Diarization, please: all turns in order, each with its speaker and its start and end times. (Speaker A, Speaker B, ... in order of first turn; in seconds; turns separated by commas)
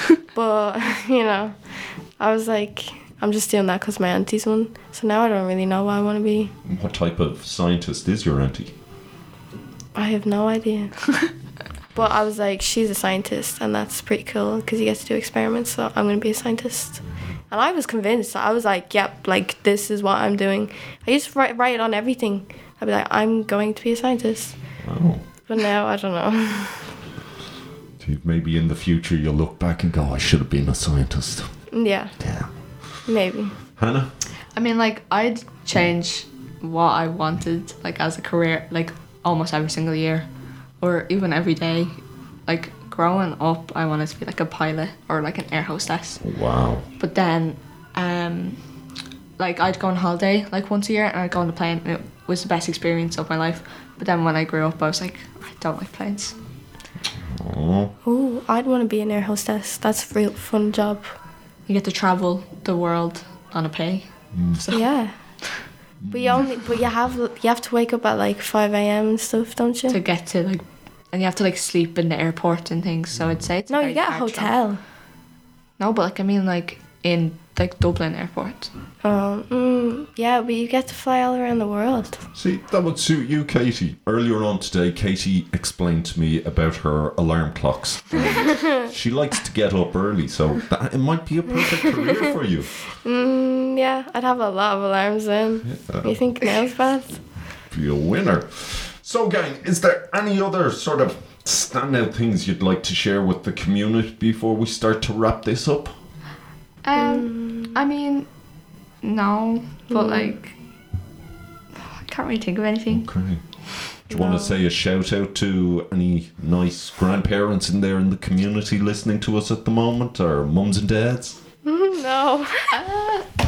Speaker A: 0.3-1.5, Speaker A: 2.2-6.5, Speaker B: 6.7-8.7, Speaker A: 10.0-11.1, Speaker A: 11.9-24.6, Speaker B: 24.8-25.2, Speaker A: 25.5-27.0, Speaker B: 28.0-31.5, Speaker A: 31.7-32.2, Speaker B: 32.2-32.5, Speaker A: 33.1-33.6, Speaker B: 33.8-34.1, Speaker C: 34.5-40.3, Speaker C: 40.8-42.0, Speaker C: 42.5-46.2, Speaker B: 46.2-46.9, Speaker C: 47.0-48.6, Speaker C: 49.4-56.4, Speaker B: 57.2-57.9, Speaker A: 58.0-61.1, Speaker C: 61.7-64.9, Speaker B: 64.3-64.6, Speaker A: 64.7-65.1, Speaker B: 66.0-66.6, Speaker A: 66.1-70.0, Speaker C: 69.9-74.5, Speaker A: 73.7-74.8, Speaker C: 75.8-78.7, Speaker A: 79.0-82.2, Speaker B: 82.3-92.8, Speaker A: 93.0-97.2, Speaker B: 95.7-96.2, Speaker B: 97.7-106.0, Speaker C: 106.8-108.3, Speaker A: 107.0-107.8, Speaker C: 109.0-110.5, Speaker A: 109.9-110.3, Speaker C: 111.9-113.1, Speaker B: 112.9-113.4, Speaker A: 114.1-114.6, Speaker B: 114.1-121.4, Speaker A: 121.6-122.8, Speaker C: 122.7-123.3